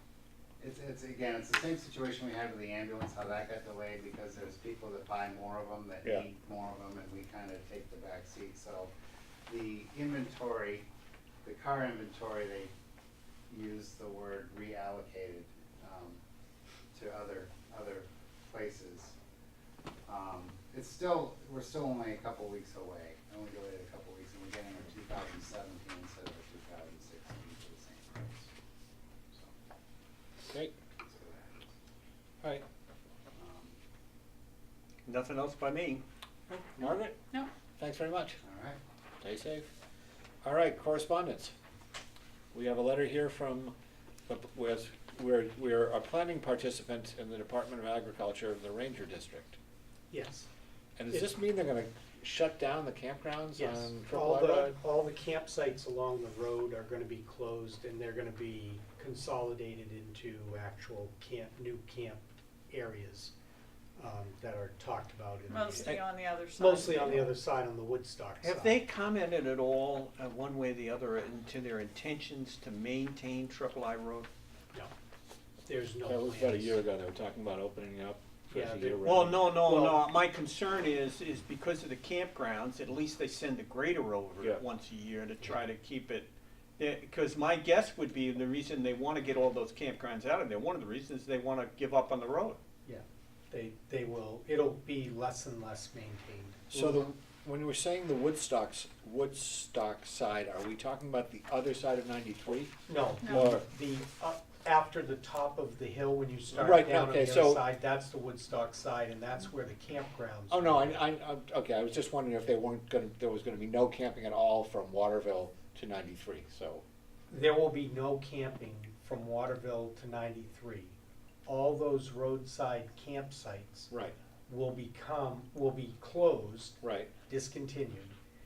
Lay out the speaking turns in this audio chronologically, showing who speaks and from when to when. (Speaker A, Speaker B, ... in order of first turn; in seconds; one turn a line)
Speaker A: 0.6-8.9
Speaker A: 9.5-10.9
Speaker A: 11.4-12.7
Speaker A: 13.5-16.2
Speaker A: 16.9-19.1
Speaker A: 20.1-28.5
Speaker A: 30.9-31.7
Speaker A: 33.3-33.8
Speaker B: 35.0-36.0
Speaker C: 36.5-37.1
Speaker C: 37.8-38.4
Speaker A: 38.4-38.8
Speaker C: 39.2-39.7
Speaker C: 40.4-41.5
Speaker C: 42.5-43.7
Speaker C: 44.3-49.6
Speaker D: 50.1-50.5
Speaker C: 51.0-54.7
Speaker D: 53.5-63.3
Speaker D: 64.0-66.0
Speaker E: 65.5-67.4
Speaker D: 66.5-68.8
Speaker B: 68.4-74.3
Speaker D: 75.7-76.7
Speaker C: 76.0-79.4
Speaker D: 78.5-80.0
Speaker B: 79.0-92.6
Speaker D: 92.8-97.1
Speaker C: 96.7-102.7
Speaker D: 102.9-111.0
Speaker E: 103.2-103.5
Speaker C: 103.3-103.6
Speaker C: 106.5-107.6
Speaker C: 110.5-116.8
Speaker D: 117.3-120.9
Speaker D: 121.5-123.9
Speaker C: 123.9-124.1
Speaker D: 124.5-128.2
Speaker C: 126.8-127.1